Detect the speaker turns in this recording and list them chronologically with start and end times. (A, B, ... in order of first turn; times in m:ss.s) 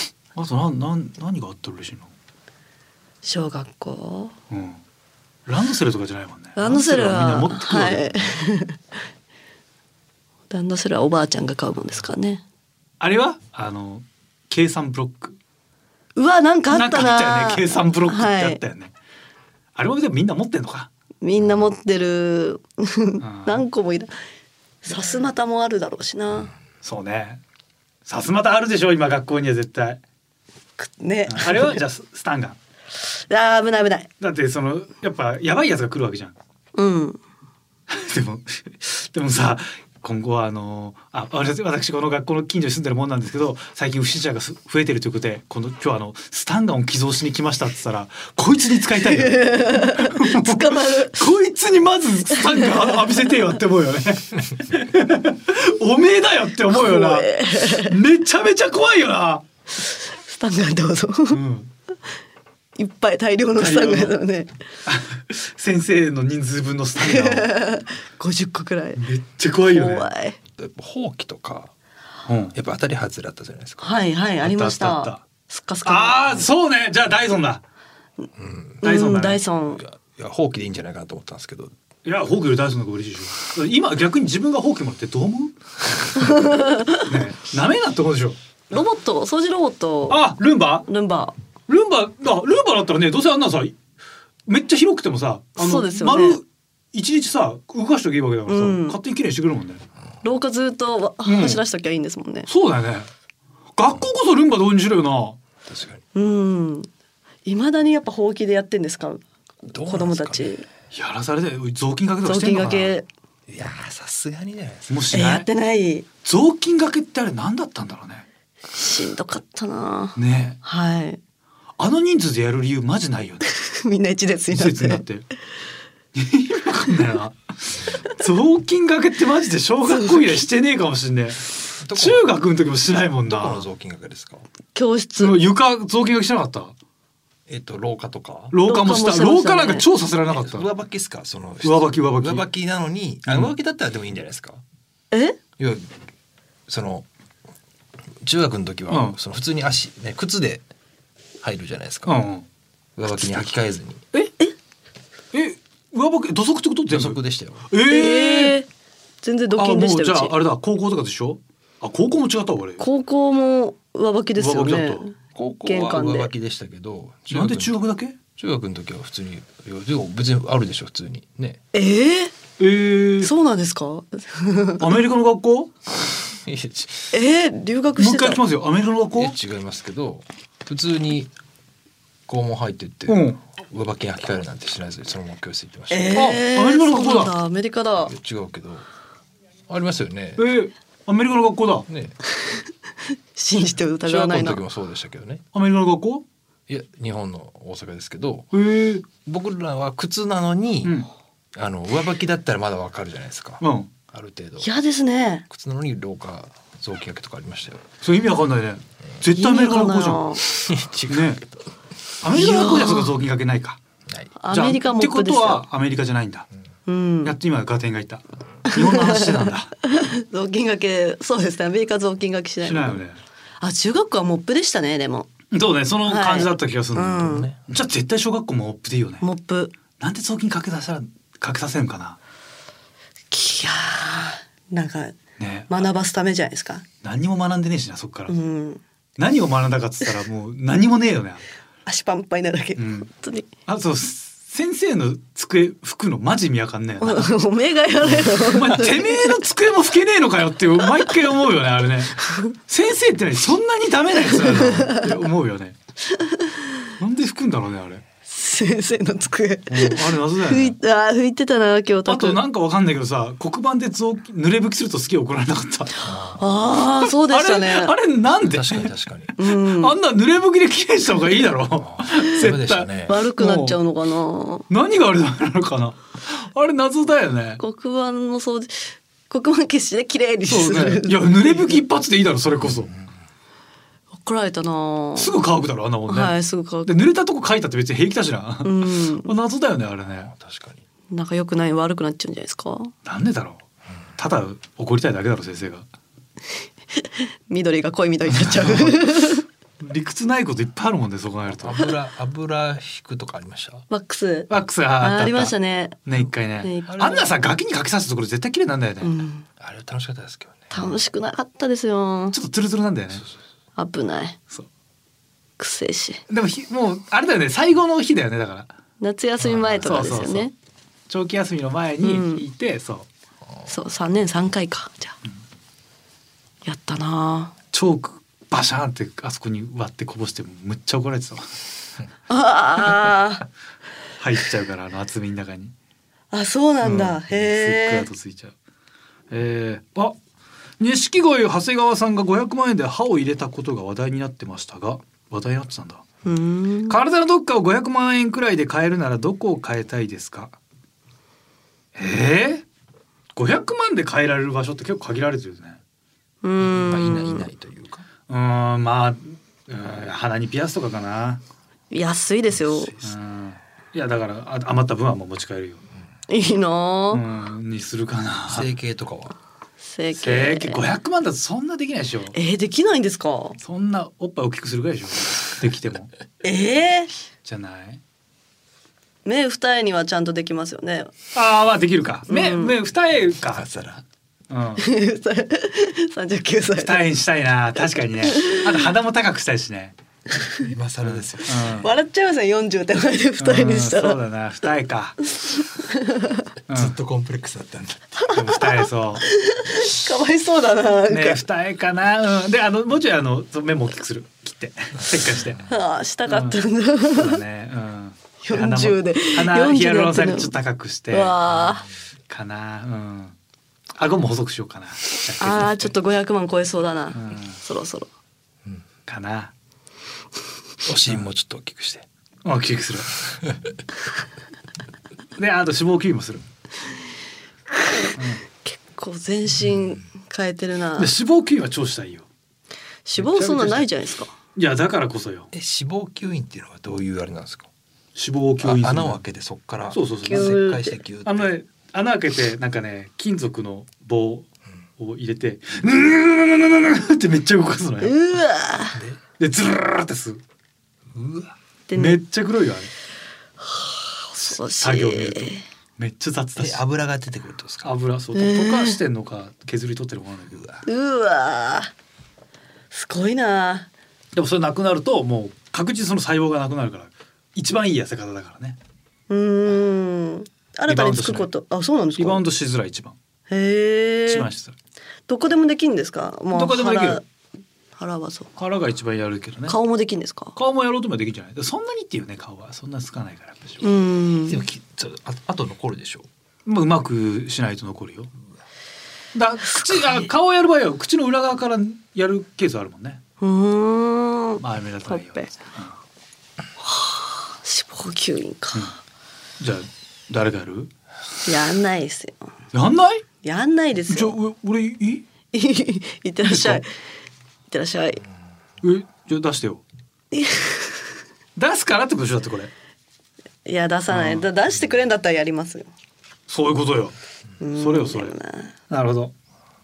0:00.3-0:02.1 A
0:03.2-0:04.3 B
0:04.5-0:04.8 A
0:05.4-0:08.0 A
0:06.6-0:08.8 B
0:10.5-0:12.4 B
0:13.0-0:15.4 A
0:16.2-0:18.6 B
0:16.7-0:18.9 A
0:19.7-0:20.9 A
0:21.2-0:24.1 B
0:23.2-0:23.6 A
0:24.8-0:26.5 B
0:26.8-0:27.4 A
0:28.0-0:30.0 A
0:30.8-0:31.8 B
0:31.3-0:32.6 A
0:33.1-0:34.1 B
0:34.2-0:36.4 A
0:36.8-0:37.2 B
0:37.9-0:59.4 A
0:49.0-0:51.2 B
0:52.3-0:53.1 B
0:56.7-0:58.0 B
1:00.2-1:01.4 B
1:01.3-1:01.7 A
1:02.8-1:04.5 B
1:03.5-1:04.1 A
1:04.9-1:07.5 A
1:07.0-1:09.0 B
1:09.0-1:10.1 A
1:09.7-1:10.4 B
1:10.6-1:11.7 C
1:12.3-1:12.6 A
1:12.5-1:13.9 C
1:13.8-1:16.4 B
1:14.4-1:15.2 A
1:15.8-1:17.6 A
1:18.4-1:18.8 C
1:18.8-1:19.8 B
1:18.8-1:19.4 A
1:19.7-1:21.7 C
1:22.0-1:25.5 A
1:26.2-1:27.1 B
1:27.0-1:28.4 A
1:28.7-1:30.2 B
1:30.1-1:30.9 A
1:30.8-1:31.3 B
1:31.7-1:33.8 A
1:34.5-1:39.8 A
1:35.6-1:36.4 B
1:38.5-1:39.0 B
1:40.2-1:42.5 B
1:41.2-1:41.6 A
1:42.5-1:43.1 A
1:43.8-1:45.4 A
1:45.6-1:46.0 C
1:46.1-1:46.9 B
1:47.4-1:50.6 B
1:49.7-1:50.6 C
1:50.9-1:52.9 A
1:52.2-1:53.0 B
1:53.5-1:54.9 C
1:54.9-1:55.5 A
1:55.1-1:56.1 B
1:56.2-1:58.2 A
1:58.7-2:01.2 B
2:00.2-2:00.6 A
2:01.8-2:03.5 A
2:03.4-2:05.0 B
2:04.5-2:05.2 A
2:06.1-2:13.6 A
2:09.9-2:10.4 B
2:11.8-2:12.3 C
2:13.3-2:14.4 C
2:14.7-2:15.4 B
2:15.2-2:16.7 A
2:17.5-2:18.5 C
2:18.5-2:20.7 A
2:18.6-2:19.9 B
2:20.3-2:24.6 C
2:21.6-2:22.4 A
2:23.3-2:23.5 A
2:25.1-2:25.4 B
2:25.6-2:25.9 C
2:26.7-2:27.1 C
2:28.2-2:30.6 C
2:28.9-2:29.2 A
2:31.4-2:32.2 C
2:32.0-2:32.4 A
2:33.0-2:34.0 C
2:35.3-2:38.6 A
2:36.9-2:37.7 C
2:37.8-2:38.7 B
2:39.2-2:40.3 B
2:39.6-2:42.8 A
2:42.8-2:46.3 B
2:44.4-2:45.0 A
2:45.3-2:47.8 C
2:47.3-2:48.2 A
2:48.4-2:51.6 C
2:51.7-2:52.3 B
2:52.6-2:53.3 A
2:53.2-2:54.9 B
2:54.8-2:55.7 A
2:56.4-2:57.1 C
2:57.1-2:58.4 B
2:58.0-2:59.4 A
2:59.2-3:01.3 C
3:02.3-3:06.3 C
3:03.1-3:03.4 A
3:05.9-3:08.1 B
3:06.1-3:07.3 A
3:08.0-3:08.8 C
3:09.7-3:10.4 C
3:10.4-3:11.8 A
3:11.9-3:12.2 C
3:12.3-3:12.7 B
3:13.3-3:14.6 B
3:14.0-3:15.4 C
3:15.5-3:16.2 A
3:16.7-3:18.5 C
3:18.5-3:19.0 A
3:19.2-3:21.0 C
3:20.8-3:21.1 A
3:21.5-3:24.7 C
3:23.6-3:23.9 A
3:24.6-3:25.4 B
3:25.5-3:27.8 C
3:28.0-3:30.4 A
3:29.3-3:30.4 B
3:30.6-3:31.3 C
3:31.1-3:31.4 A
3:32.2-3:33.8 A
3:32.3-3:33.1 B
3:34.4-3:35.6 B
3:34.5-3:36.5 A
3:36.9-3:37.4 B
3:37.2-3:39.7 A
3:38.7-3:43.0 B
3:42.6-3:43.2 A
3:43.6-3:45.3 B
3:45.5-3:49.2 A
3:46.0-3:47.5 B
3:47.1-3:47.8 C
3:49.2-3:49.7 B
3:50.0-3:52.2 A
3:53.3-3:55.2 B
3:55.4-3:55.9 A
3:55.7-3:56.8 B
3:57.0-3:58.3 A
3:58.3-3:58.8 B
3:59.2-4:01.4 A
4:01.8-4:03.5 B
4:02.8-4:03.1 A
4:03.6-4:07.3 A
4:07.0-4:09.4 B
4:08.0-4:15.8 A
4:12.2-4:12.5 B
4:14.3-4:15.1 B
4:16.1-4:16.9 B
4:17.0-4:18.0 A
4:18.3-4:22.4 B
4:19.7-4:20.8 A
4:22.1-4:25.9 A
4:26.0-4:26.4 C
4:26.4-4:27.9 B
4:27.0-4:33.8 A
4:28.5-4:29.3 C
4:29.4-4:30.0 B
4:31.8-4:33.2 C
4:33.1-4:34.6 B
4:34.7-4:37.6 A
4:37.6-4:41.8 B
4:40.5-4:42.9 A
4:44.2-4:45.4 B
4:45.2-4:50.3 A
4:46.1-4:47.0 B
4:48.6-4:49.3 B
4:50.2-4:50.8 C
4:51.1-4:52.9 B
4:53.0-4:53.6 A
4:54.2-4:55.8 A
4:56.9-4:59.4 B
4:58.3-5:01.9 A
5:01.5-5:03.8 C
5:03.9-5:06.0 B
5:04.5-5:09.1 A
5:06.6-5:07.4 B
5:09.0-5:09.4 B
5:09.6-5:11.0 C
5:10.7-5:12.4 B
5:12.3-5:13.2 A
5:13.8-5:14.4 B
5:15.6-5:16.2 B
5:16.3-5:18.7 A
5:19.0-5:20.5 B
5:19.4-5:20.0 C
5:19.8-5:20.5 A
5:21.1-5:23.1 A
5:22.0-5:22.4 B
5:23.7-5:25.2 B
5:26.6-5:27.5 B
5:27.7-5:31.5 A
5:32.3-5:33.4 B
5:34.2-5:35.7 A
5:36.3-5:38.1 B
5:36.8-5:38.5 A
5:39.3-5:40.2 A
5:40.8-5:46.0 A
5:46.2-5:47.0 B
5:46.9-5:50.5 A
5:52.0-5:52.6 A
5:53.4-5:55.8 A
5:56.4-5:57.5 B
5:56.6-5:58.1 C
5:58.3-6:01.4 A
6:01.9-6:02.9 B
6:02.6-6:03.2 C
6:03.0-6:05.8 A
6:06.3-6:07.2 B
6:07.1-6:08.7 A
6:08.5-6:09.4 C
6:09.8-6:10.8 B
6:10.1-6:12.3 A
6:12.3-6:13.6 B
6:13.6-6:16.1 A
6:16.4-6:17.1 B
6:17.4-6:18.0 A
6:19.2-6:21.1 B
6:21.3-6:23.6 A
6:22.3-6:22.8 B
6:23.5-6:24.0 C
6:24.5-6:24.8 A
6:24.8-6:27.1 B
6:26.8-6:29.9 A
6:28.2-6:28.8 B
6:30.6-6:31.8 C
6:31.0-6:31.9 A
6:31.7-6:34.2 B
6:33.4-6:35.3 A
6:35.8-6:36.5 B
6:36.7-6:37.0 A
6:36.7-6:38.2 C
6:38.2-6:41.4 B
6:38.3-6:39.2 A
6:41.1-6:45.6 A
6:45.7-6:47.4 B
6:46.3-6:51.4 A
6:48.4-6:50.5 B
6:51.1-6:51.9 B
6:52.3-6:53.3 A
6:54.0-6:55.9 A
6:55.4-6:58.1 B
6:57.1-6:57.6 A
6:59.1-6:59.5 A
7:00.8-7:02.0 C
7:02.4-7:03.2 A
7:05.4-7:06.4 A
7:07.8-7:11.1 B
7:08.2-7:08.4 A
7:11.0-7:12.2 A
7:13.0-7:14.3 B
7:13.2-7:13.9 A
7:14.5-7:15.5 A
7:15.5-7:17.7 C
7:18.2-7:19.2 A
7:18.6-7:21.5 C
7:19.9-7:24.5 A
7:20.3-7:21.0 B
7:25.0-7:28.1 A
7:28.0-7:29.0 B
7:28.9-7:29.2 C
7:29.4-7:30.4 A
7:31.1-7:31.5 C
7:31.9-7:32.2 B
7:31.9-7:32.9 A
7:33.6-7:35.6 B
7:34.4-7:36.8 A
7:36.6-7:37.9 C
7:37.8-7:40.8 A
7:38.3-7:39.0 B
7:40.8-7:41.9 B
7:42.9-7:43.9 B
7:44.3-7:48.8 A
7:49.3-7:52.4 B
7:50.9-7:51.5 A
7:52.2-7:53.2 A
7:53.5-7:54.5 B
7:54.3-7:54.7 A
7:55.3-7:57.2 B
7:56.5-7:57.2 A
7:58.0-7:58.5 B
7:58.6-7:59.8 A
7:59.7-8:00.5 B
8:00.6-8:03.8 A
8:03.8-8:04.6 B
8:04.5-8:06.3 C
8:06.6-8:08.3 A
8:09.3-8:13.2 A
8:09.9-8:10.2 B
8:13.4-8:15.5 B
8:14.6-8:15.9 A
8:16.8-8:18.9 B
8:19.6-8:20.9 A
8:21.4-8:22.5 B
8:22.7-8:23.2 A
8:23.4-8:24.4 B
8:24.1-8:25.2 A
8:25.5-8:26.9 B
8:26.4-8:26.8 A
8:27.7-8:28.2 B
8:28.8-8:29.8 A
8:30.3-8:31.1 B
8:31.6-8:32.7 A
8:33.6-8:35.9 B
8:34.1-8:34.4 A
8:36.5-8:37.1 A
8:37.6-8:38.7 B
8:37.8-8:38.3 A
8:38.9-8:39.3 A